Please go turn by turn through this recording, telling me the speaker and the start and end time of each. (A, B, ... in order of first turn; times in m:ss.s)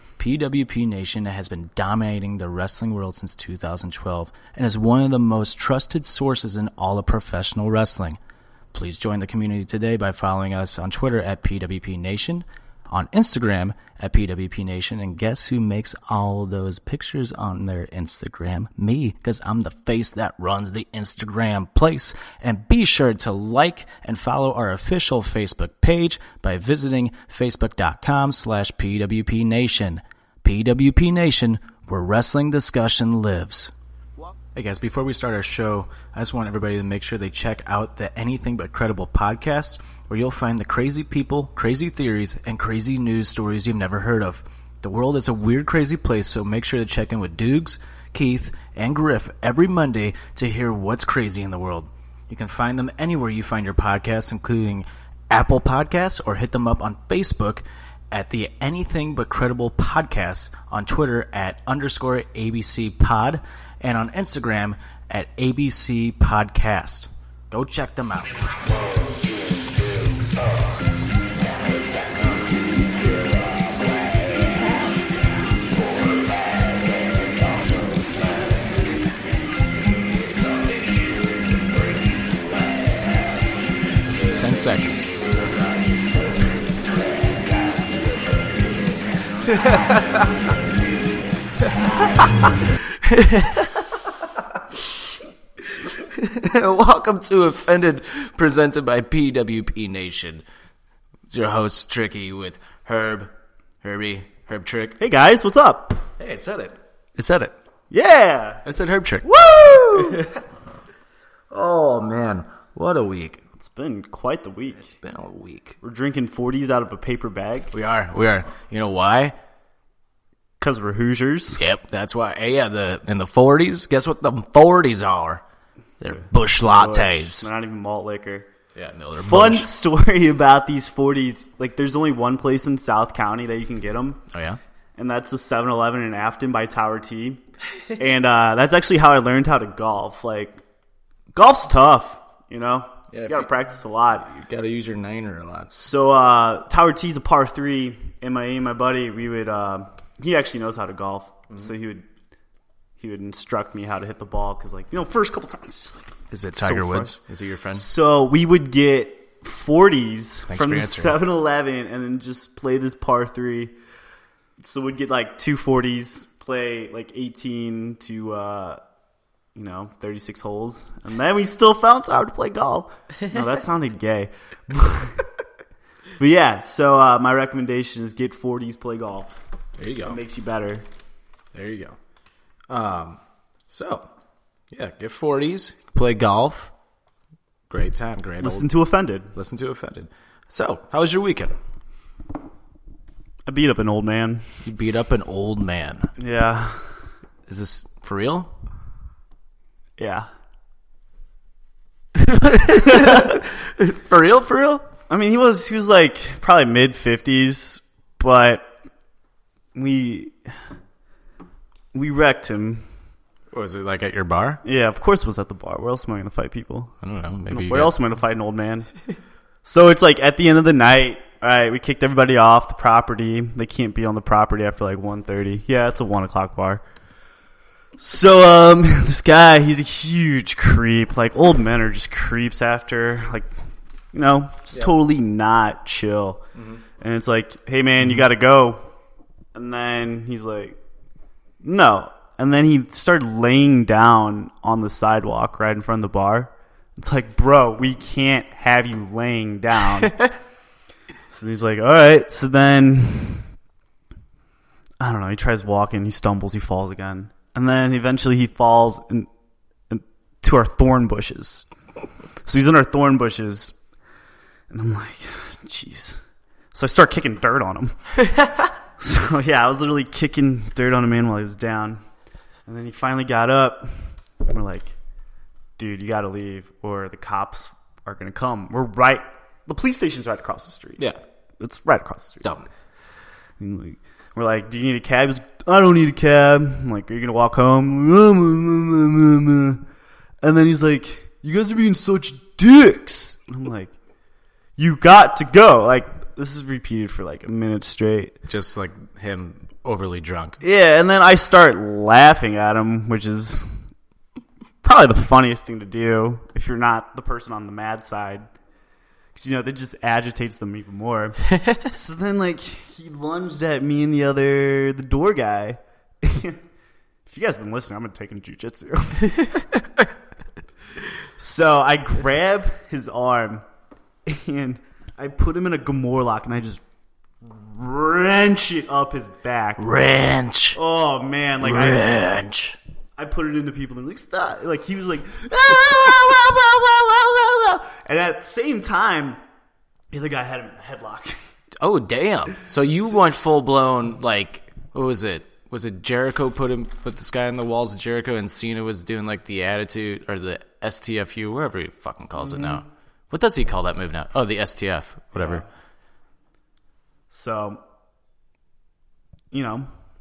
0:00.2-0:08.2 A
0:08.7-0:33.7 A
0:34.5-1:08.5 A
1:12.1-1:12.5 A
1:14.5-1:15.3 A
1:24.3-1:25.2 A
1:29.5-1:30.4 A
1:32.0-1:33.8 A
1:35.8-1:40.4 A
1:41.3-1:45.0 A
1:45.0-1:46.0 B
1:46.2-1:47.6 A
1:47.9-1:48.6 B
1:48.6-1:50.4 A
1:49.4-1:50.3 B
1:51.5-1:53.4 A
1:53.6-1:54.9 B
1:54.8-1:55.8 A
1:55.8-1:57.7 B
1:57.7-1:59.3 A
2:00.6-2:01.6 B
2:01.6-2:05.4 A
2:06.0-2:07.5 A
2:06.1-2:08.5 B
2:08.8-2:09.7 A
2:09.2-2:14.2 B
2:14.3-2:14.6 A
2:15.0-2:17.4 B
2:18.0-2:20.6 B
2:21.3-2:24.3 B
2:23.1-2:23.5 A
2:24.2-2:25.7 A
2:25.7-2:32.1 B
2:33.0-2:37.2 B
2:36.3-2:37.9 A
2:37.7-2:43.7 B
2:40.5-2:41.2 A
2:44.6-2:48.8 B
2:49.6-2:55.2 B
2:56.2-2:59.4 B
2:59.8-3:00.2 A
3:00.0-3:00.8 B
3:01.5-3:02.0 A
3:02.7-3:04.1 A
3:04.7-3:06.7 A
3:07.7-3:08.7 A
3:08.4-3:09.3 B
3:09.3-3:11.6 A
3:13.4-3:14.5 B
3:14.6-3:16.1 A
3:16.2-3:16.9 B
3:17.5-3:18.5 A
3:20.0-3:20.3 B
3:22.2-3:24.9 A
3:22.9-3:23.3 B
3:25.1-3:28.7 B
3:29.7-3:30.6 B
3:31.9-3:32.8 B
3:33.5-3:34.6 A
3:34.6-3:36.9 B
3:37.0-3:37.9 A
3:37.5-3:38.9 B
3:39.6-3:46.8 B
3:48.0-3:53.5 B
3:54.1-3:56.4 B
3:56.6-3:56.8 A
3:57.0-3:58.8 B
3:59.5-4:00.8 B
4:01.6-4:10.2 B
4:11.3-4:13.5 B
4:15.0-4:19.3 B
4:19.9-4:21.7 B
4:22.4-4:23.8 B
4:24.7-4:26.2 B
4:26.7-4:28.2 B
4:29.0-4:32.0 B
4:32.7-4:34.9 B
4:35.8-4:41.0 B
4:41.6-4:42.4 B
4:42.4-4:42.7 A
4:43.6-4:49.8 B
4:50.4-4:53.9 B
4:54.8-4:58.4 B
4:58.5-5:00.6 A
5:00.6-5:03.7 B
5:04.8-5:08.5 B
5:09.4-5:16.6 B
5:17.2-5:19.4 B
5:21.4-5:23.6 B
5:24.2-5:26.8 B
5:27.4-5:29.9 B
5:29.8-5:30.8 A
5:30.7-5:32.4 B
5:31.6-5:32.8 A
5:33.2-5:39.4 B
5:40.1-5:41.4 B
5:41.8-5:55.6 A
5:52.4-5:52.8 B
5:55.3-5:55.7 B
5:57.3-5:57.8 B
5:59.5-5:59.9 B